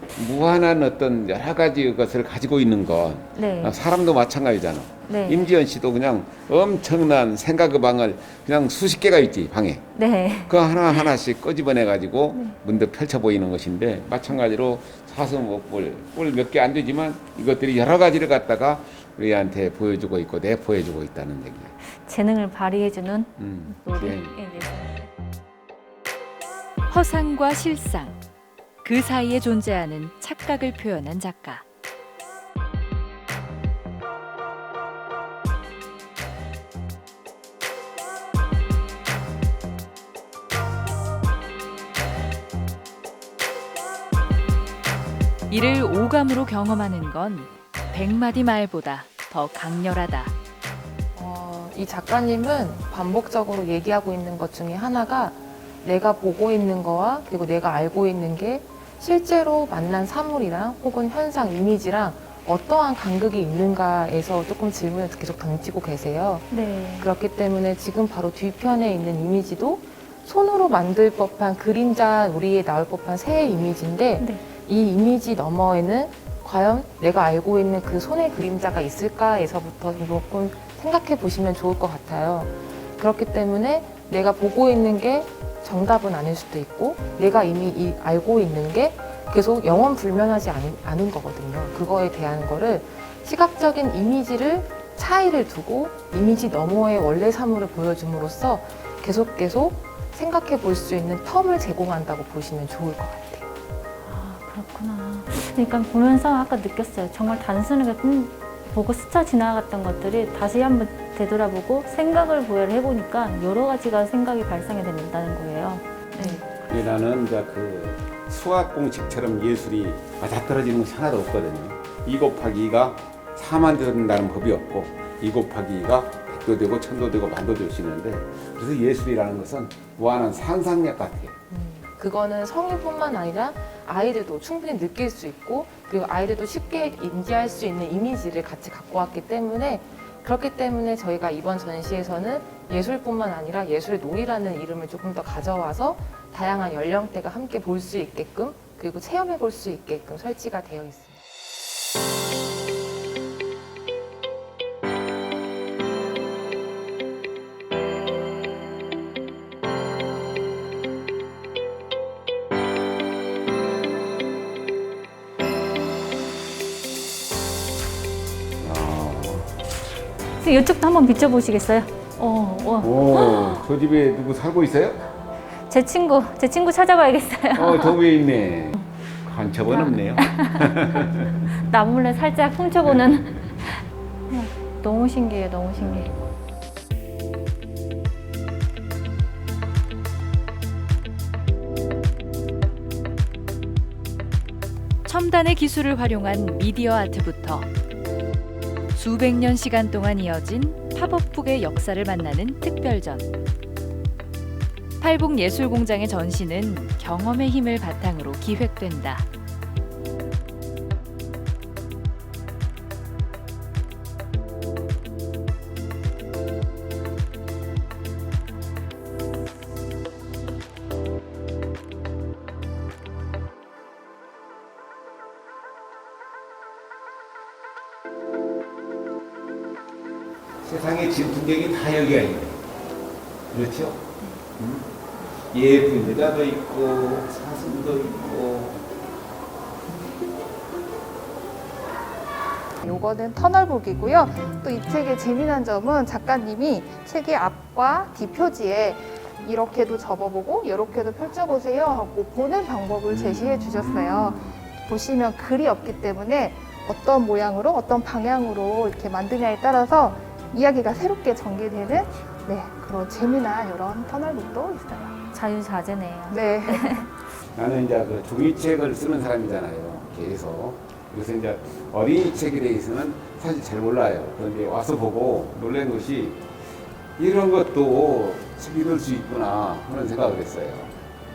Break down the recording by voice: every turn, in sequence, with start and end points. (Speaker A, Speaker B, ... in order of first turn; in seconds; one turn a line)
Speaker A: 0.1-9.8
Speaker B: 3.4-3.8
Speaker B: 5.1-5.4
Speaker B: 10.0-10.6
Speaker A: 10.5-21.7
Speaker B: 22.1-25.1
Speaker A: 23.4-24.4
Speaker C: 26.9-28.2
Speaker C: 28.8-31.6
Speaker C: 45.5-50.3
Speaker D: 51.2-103.5
Speaker B: 66.5-67.1
Speaker B: 104.0-116.5
Speaker A: 116.7-131.4
Speaker D: 131.5-151.2
Speaker A: 168.6-169.5
Speaker B: 170.4-173.6
Speaker A: 172.8-175.0
Speaker B: 175.7-178.0
Speaker A: 177.6-181.5
Speaker B: 179.7-181.1
Speaker B: 181.6-186.1
Speaker A: 185.8-186.3
Speaker C: 195.1-197.7
Speaker C: 198.9-203.3
Speaker C: 205.0-209.3
Speaker A: 230.6-232.6
Speaker A: 233.5-238.8
Speaker E: 242.8-265.2
Speaker A: 253.1-254.7
Speaker B: 265.3-267.1
Speaker E: 266.3-267.1
Speaker A: 267.5-276.4
Speaker A: 277.2-280.9